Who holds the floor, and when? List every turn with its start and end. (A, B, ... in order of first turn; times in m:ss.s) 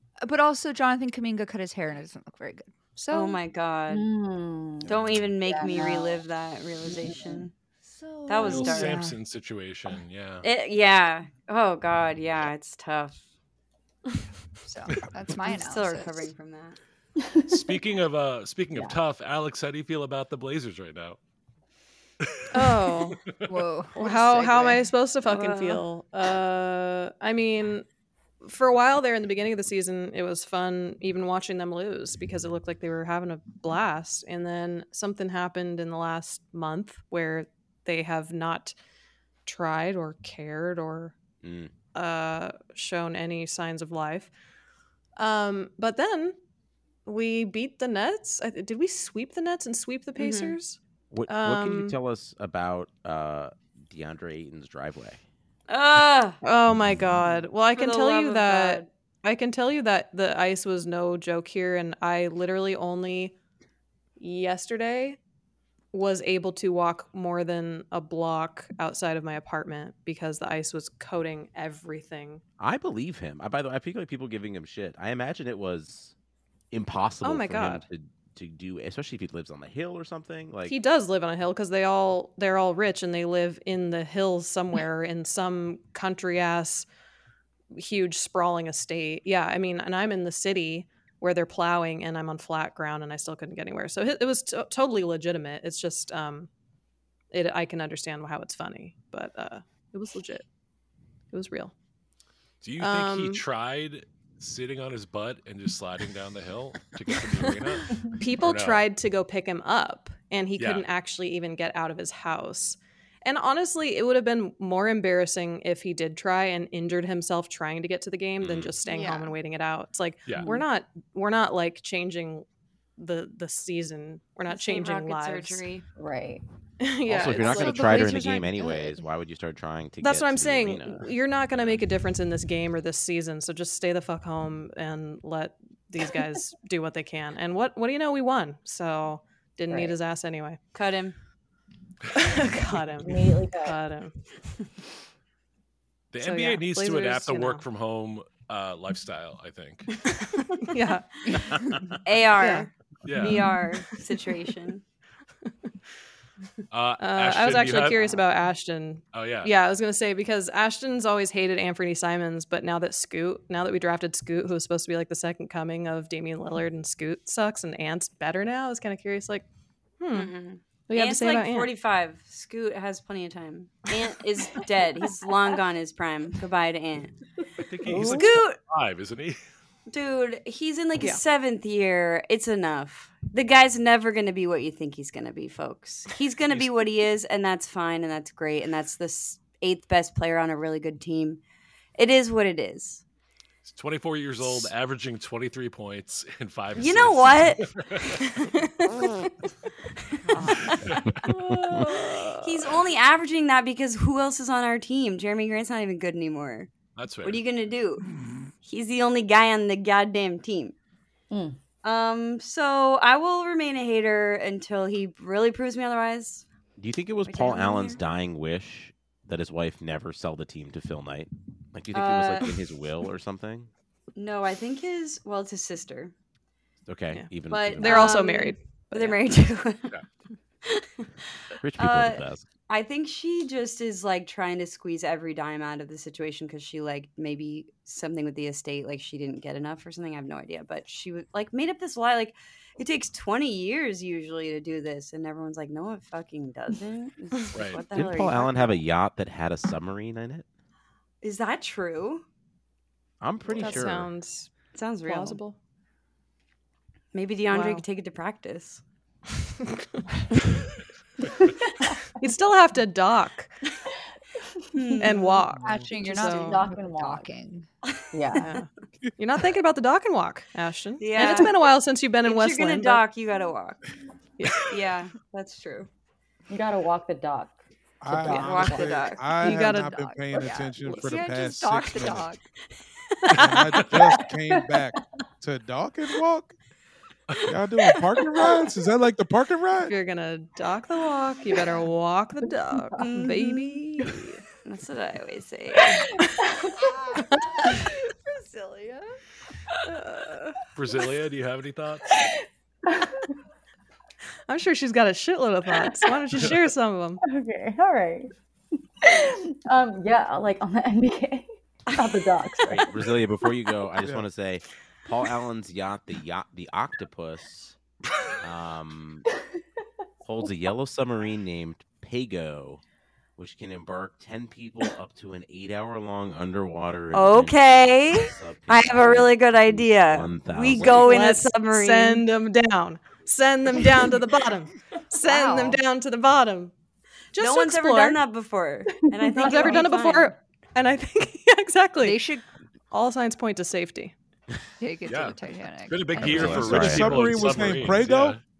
0:00.2-0:03.4 A
0:03.1-0:04.0 B
0:03.9-0:06.2 C
0:04.9-0:07.5 B
0:06.8-0:07.4 C
0:07.8-0:09.2 A
0:08.3-0:09.0 B
0:08.4-0:10.5 D
0:10.4-0:13.2 B
0:14.7-0:16.3 A
0:15.4-0:16.8 B
0:17.2-0:17.8 C
0:17.5-0:21.2 D
0:22.3-0:23.4 D
0:22.5-0:23.2 E
0:23.4-0:24.8 A
0:24.0-0:27.8 E
0:25.2-0:25.8 B
0:28.4-0:38.7 E
0:39.4-0:41.1 E
0:41.4-0:41.7 F
0:41.9-0:44.3 E
0:45.2-0:46.4 E
0:47.0-0:52.0 E
0:50.2-0:50.6 B
0:51.1-0:55.2 F
0:55.7-0:56.4 B
0:56.4-1:03.3 E
0:57.7-0:58.9 B
1:04.2-1:05.2 E
1:05.9-1:12.4 E
1:12.6-1:16.1 F
1:16.7-1:20.8 F
1:17.2-1:17.8 E
1:20.7-1:26.9 E
1:27.7-1:36.5 E
1:37.3-1:40.4 E
1:41.3-1:41.7 E
1:42.6-1:48.8 D
1:42.8-1:43.4 E
1:48.1-2:02.4 E
1:50.6-1:50.9 D
1:58.4-1:58.7 D
1:58.9-1:59.3 B
2:00.4-2:00.6 C
2:03.0-2:05.6 E
2:04.5-2:05.8 B
2:06.0-2:06.4 C
2:06.8-2:08.2 E
2:07.1-2:11.8 F
2:07.4-2:09.0 A
2:10.0-2:20.6 E
2:19.7-2:20.0 C
2:20.7-2:21.2 B
2:22.1-2:24.1 E
2:22.6-2:23.0 D
2:23.0-2:23.8 C
2:26.1-2:29.9 D
2:26.2-2:27.6 E
2:30.4-2:31.7 E
2:32.0-2:34.8 B
2:32.3-2:32.7 E
2:33.0-2:33.4 D
2:36.7-2:38.2 D
2:37.0-2:49.4 E
2:39.1-2:39.5 D
2:50.0-2:50.3 E
2:50.1-2:57.2 B
2:50.9-2:51.7 E
2:57.6-2:59.4 D
2:57.8-2:58.3 C
2:58.0-2:58.6 B
2:59.9-3:11.4 B
3:06.5-3:06.8 D
3:12.0-3:13.0 B
3:13.6-3:18.2 D
3:16.8-3:17.6 B
3:20.3-3:20.6 A
3:20.8-3:21.2 D
3:21.3-3:22.5 E
3:22.0-3:26.7 B
3:27.0-3:27.4 D
3:27.2-3:28.0 B
3:28.6-3:30.7 B
3:31.3-3:31.6 C
3:31.8-3:36.5 B
3:36.8-3:43.7 F
3:37.2-3:38.0 B
3:41.9-3:42.6 B
3:44.2-3:46.1 B
3:46.9-3:48.1 F
3:47.1-3:49.2 E
3:47.4-3:50.0 B
3:50.6-3:51.1 B
3:51.6-3:52.5 F
3:51.8-4:08.8 B
4:07.5-4:07.8 D
4:07.9-4:10.4 F
4:11.2-4:12.2 B
4:13.2-4:14.1 F
4:13.5-4:14.5 E
4:14.7-4:15.4 B
4:15.0-4:15.6 E
4:17.1-4:18.8 B
4:17.4-4:17.8 E
4:22.2-4:23.5 E
4:24.6-4:25.1 C
4:24.7-4:25.5 B
4:25.0-4:26.6 E
4:25.6-4:27.7 A
4:26.0-4:27.3 C
4:28.1-4:28.5 C
4:28.4-4:28.6 E
4:29.2-4:33.0 E
4:31.0-4:31.7 B
4:32.2-4:33.8 B
4:34.4-4:34.8 E
4:34.5-4:35.9 B
4:36.5-4:39.1 C
4:38.0-4:42.3 G
4:38.3-4:39.3 B
4:39.4-4:39.9 E
4:39.4-4:42.4 A
4:43.3-4:46.5 G
4:44.5-4:44.8 C
4:47.5-4:49.9 G
4:49.8-4:54.4 E
4:52.9-4:54.2 C
4:53.0-4:53.7 B
4:54.6-4:56.0 B
4:58.5-4:59.0 A
5:00.8-5:02.1 D
5:02.8-5:03.2 C
5:04.5-5:07.2 E
5:07.2-5:08.3 C
5:09.0-5:12.9 C
5:12.7-5:17.8 F
5:14.0-5:14.2 G
5:18.4-5:19.2 F
5:20.2-5:22.8 F
5:23.4-5:31.3 F
5:27.1-5:32.2 B
5:30.8-5:36.7 E
5:35.2-5:35.8 A
5:37.3-5:38.2 E
5:37.4-5:40.3 B
5:38.9-5:39.8 C
5:39.3-5:42.2 E
5:42.0-5:42.4 A
5:42.9-5:44.1 E
5:44.8-5:46.7 A
5:45.1-5:45.4 D
5:45.9-5:48.4 D
5:46.2-5:47.5 F
5:46.3-5:48.4 G